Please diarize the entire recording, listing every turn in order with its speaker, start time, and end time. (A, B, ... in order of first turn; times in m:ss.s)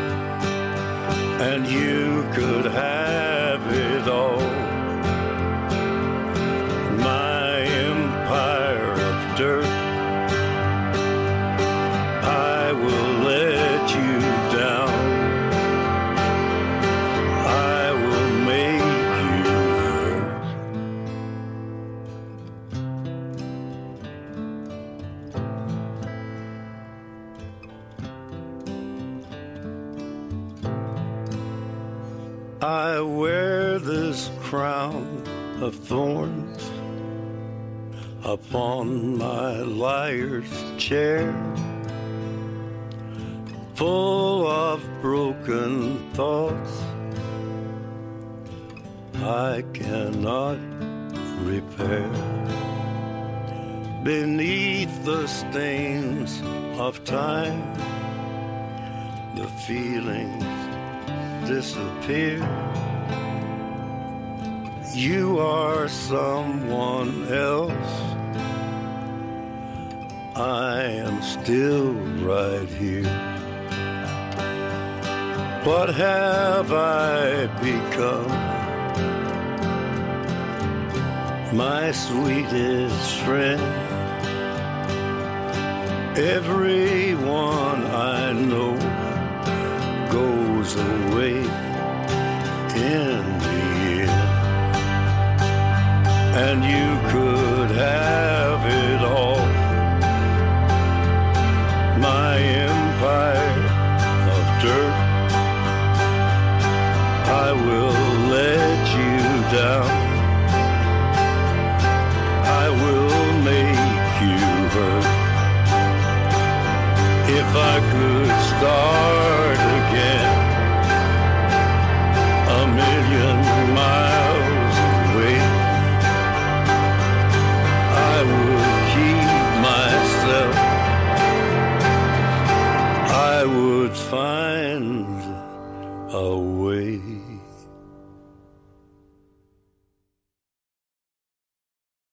0:01.4-0:04.8 A
0:06.9-0:09.8 A
0:12.2-0:15.4 A
0:17.4-0:20.5 A
0:32.6-0:36.7 A
0:38.2-0:41.6 A
0:43.7-0:46.9 A
0:49.2-0:50.6 A
0:51.4-0:52.4 A
0:54.0-0:57.8 A
0:59.3-1:00.7 A
1:01.4-1:02.7 A
1:04.9-1:08.2 A
1:10.3-1:13.3 A
1:15.6-1:18.6 A
1:21.5-1:24.0 A
1:26.1-1:29.1 A
1:30.0-1:31.6 A
1:32.7-1:34.4 A
1:36.3-1:39.7 A
1:41.9-1:45.2 A
1:47.2-1:50.3 A
1:52.4-1:55.2 A
1:57.2-2:00.5 A
2:02.5-2:05.8 A
2:07.9-2:10.8 A
2:13.0-2:15.4 A
2:16.1-2:17.4 A